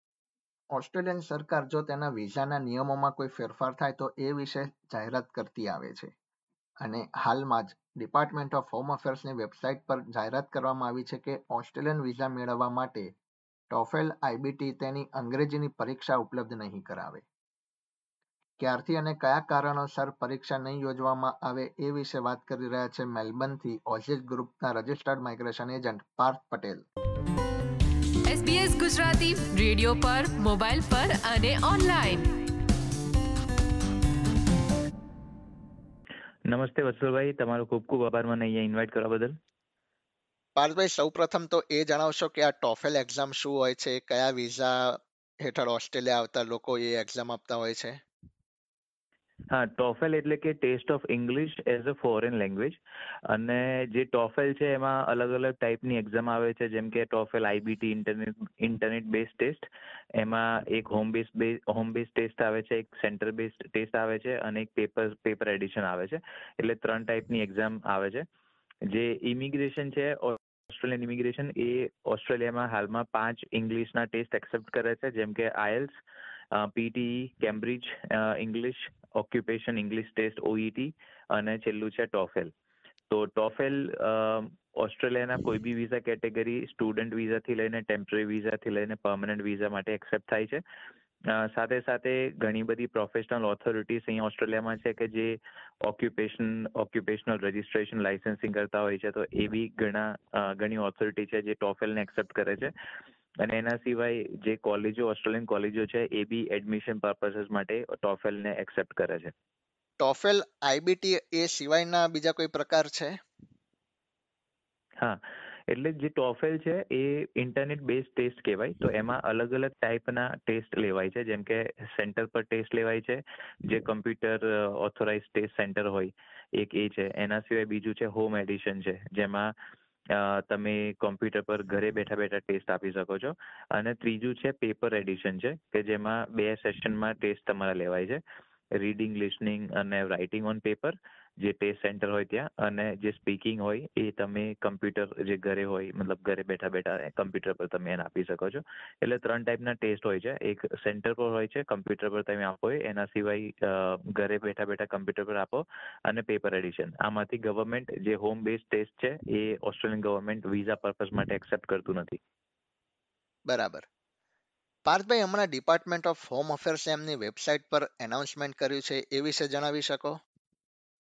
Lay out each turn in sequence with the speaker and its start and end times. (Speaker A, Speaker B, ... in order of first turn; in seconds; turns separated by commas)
Speaker A: 0.7-6.1, Speaker A: 6.8-13.1, Speaker A: 13.7-17.2, Speaker A: 18.6-26.9, Speaker B: 28.2-32.3, Speaker C: 36.5-39.3, Speaker A: 40.5-48.0, Speaker C: 49.5-68.2, Speaker C: 68.9-75.9, Speaker C: 76.5-82.5, Speaker C: 83.1-90.6, Speaker C: 91.3-102.7, Speaker C: 103.4-109.3, Speaker A: 110.0-113.2, Speaker C: 115.0-129.5, Speaker C: 130.1-138.2, Speaker C: 138.7-162.2, Speaker A: 163.5-163.8, Speaker A: 164.8-170.2